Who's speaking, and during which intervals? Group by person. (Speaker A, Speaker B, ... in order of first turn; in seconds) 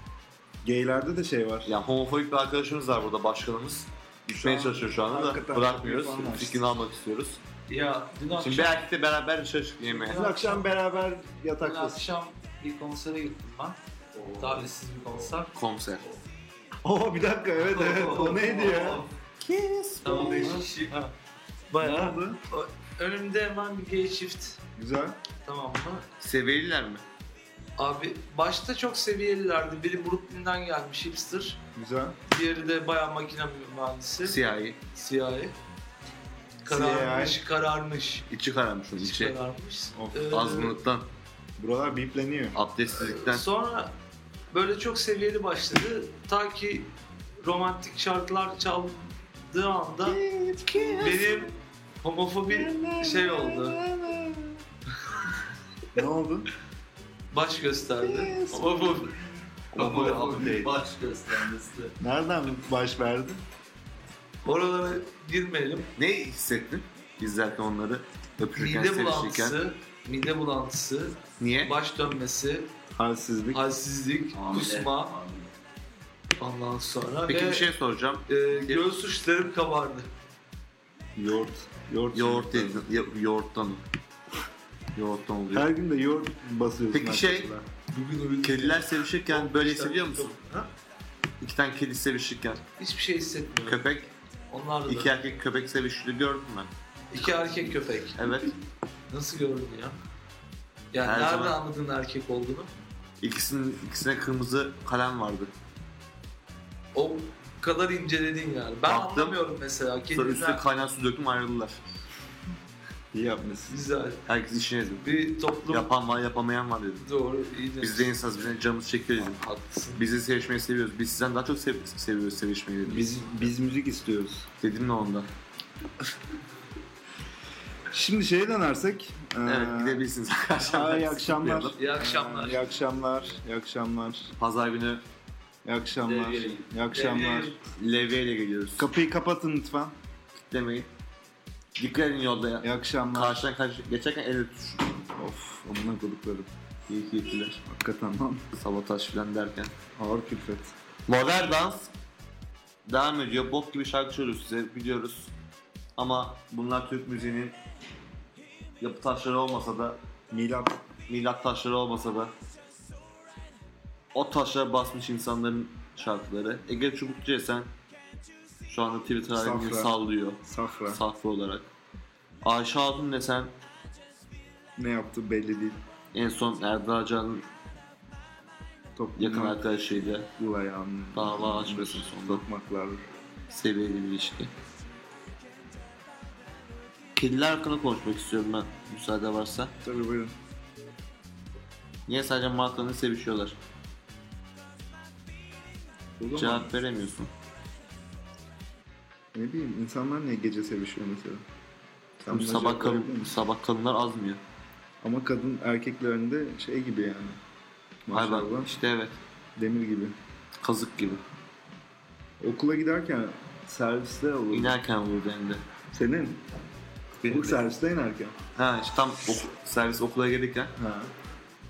Speaker A: 0.6-1.7, 4.3-6.6, 10.1-12.0, 16.8-19.0, 20.2-20.6, 21.8-22.4, 24.8-25.2, 31.7-32.2, 36.7-37.4, 39.9-40.5, 41.6-42.6, 50.1-51.3, 52.5-54.6, 55.9-56.5, 58.0-59.0, 59.8-60.6, 62.0-63.4, 73.0-73.6, 81.2-82.8, 85.5-87.7, 113.1-113.8, 122.8-124.5, 127.9-130.0, 130.6-134.3, 135.6-137.5, 138.8-139.9, 142.6-143.5, 145.2-146.5, 147.7-148.4, 150.0-150.7, 160.3-160.8, 169.3-169.9, 170.4-171.0, 174.8-175.8, 178.9-179.7, 180.4-183.0, 189.8-190.3, 196.2-196.7, 199.3-201.4, 202.2-203.4, 205.0-207.4, 208.1-208.7, 209.6-210.1, 212.4-214.8, 215.9-216.4, 217.2-218.3, 220.8-221.1
Speaker B: 1.6-7.4, 8.4-10.2, 15.5-16.0, 19.4-20.6, 26.2-27.0, 34.2-34.8, 38.3-39.3, 40.3-41.1, 42.5-43.4, 59.7-60.7, 66.0-69.5, 71.4-71.8, 77.3-78.8, 82.1-83.8, 84.9-85.7, 86.9-87.5, 88.4-90.4, 91.4-92.6, 93.6-94.1, 94.9-96.7, 98.2-98.5, 101.0-101.6, 103.2-105.5, 108.8-109.4, 110.1-111.8, 114.3-117.1, 117.8-119.4, 120.0-123.5, 124.6-125.3, 129.4-131.8, 134.4-135.0, 137.8-138.8, 140.4-140.9, 141.8-145.0, 146.9-147.6, 148.6-149.7, 151.1-151.9, 152.8-155.3, 156.0-157.5, 158.8-160.0, 161.1-162.3, 164.1-167.7, 168.7-171.6, 172.4-173.5, 176.1-177.4, 179.2-180.3, 181.1-182.4, 183.5-184.5, 187.2-189.7, 192.1-193.6, 196.3-197.3, 202.2-204.4, 208.1-209.2, 210.6-211.2, 214.5-215.6, 217.2-217.6, 218.6-220.7
Speaker C: 7.7-8.8, 9.9-10.7, 11.6-13.8, 14.4-15.5, 17.6-19.1, 20.0-21.1, 21.7-24.6, 25.4-26.0, 27.8-31.6, 32.3-34.4, 34.9-35.5, 36.6-38.2, 39.0-40.7, 43.0-43.9, 44.5-46.9, 47.4-50.2, 51.0-51.5, 52.0-53.8, 57.3-59.1, 64.4-65.9, 68.5-72.7, 73.5-75.2, 76.4-77.7, 78.3-80.1, 87.9-90.7, 92.8-93.8, 94.5-95.1, 97.1-98.4, 99.1-100.0, 100.9-102.7, 106.9-110.6, 113.7-114.2, 115.0-115.9, 117.0-118.2, 119.2-120.0, 131.8-132.7, 136.9-137.6
Speaker D: 14.2-14.6, 20.1-20.9, 59.7-61.9, 74.3-75.5, 136.0-136.6